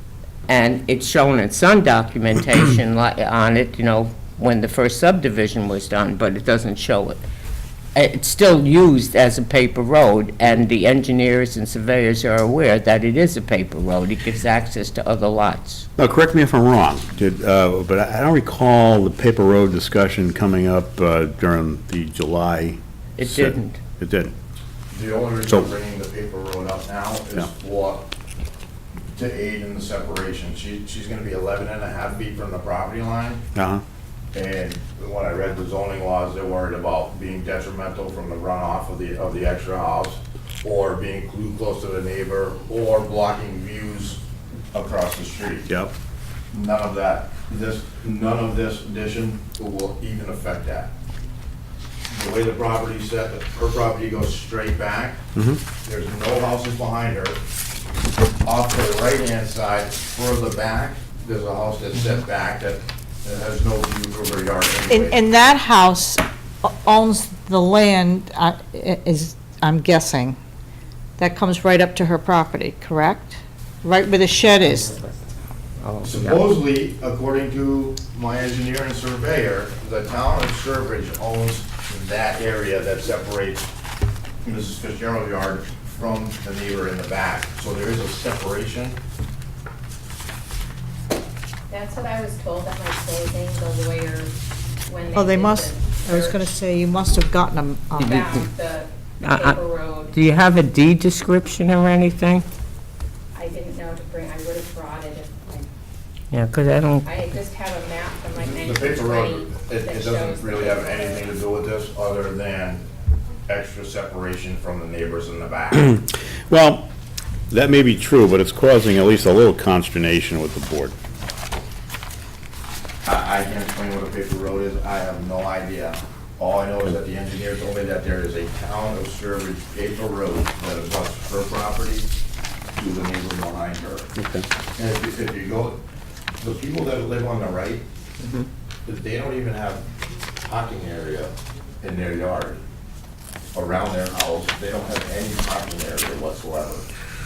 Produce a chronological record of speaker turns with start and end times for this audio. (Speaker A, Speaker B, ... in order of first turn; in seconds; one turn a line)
Speaker A: 0.5-7.2
Speaker A: 8.0-15.9
Speaker B: 16.0-24.3
Speaker A: 23.2-23.8
Speaker C: 24.9-28.1
Speaker C: 29.1-33.4
Speaker B: 33.5-33.8
Speaker C: 34.3-44.2
Speaker C: 44.7-45.7
Speaker B: 45.7-45.9
Speaker C: 46.5-50.9
Speaker C: 52.1-55.2
Speaker C: 55.9-57.4
Speaker C: 58.5-65.2
Speaker D: 64.9-70.4
Speaker D: 71.2-74.9
Speaker A: 75.8-76.4
Speaker C: 76.0-83.7
Speaker C: 84.4-89.0
Speaker E: 91.7-94.3
Speaker E: 94.9-96.4
Speaker D: 95.2-98.3
Speaker A: 98.0-98.5
Speaker E: 98.0-100.1
Speaker A: 99.2-99.6
Speaker A: 100.1-102.5
Speaker E: 103.3-105.7
Speaker A: 106.3-107.1
Speaker E: 107.0-111.4
Speaker C: 108.4-112.8
Speaker C: 113.5-116.0
Speaker B: 116.5-116.9
Speaker B: 117.5-121.0
Speaker C: 123.0-132.1
Speaker C: 132.8-134.1
Speaker B: 134.2-134.5
Speaker C: 134.8-135.8
Speaker C: 136.4-137.8
Speaker A: 138.2-138.5
Speaker C: 138.9-139.8
Speaker C: 140.4-142.6
Speaker C: 143.5-146.9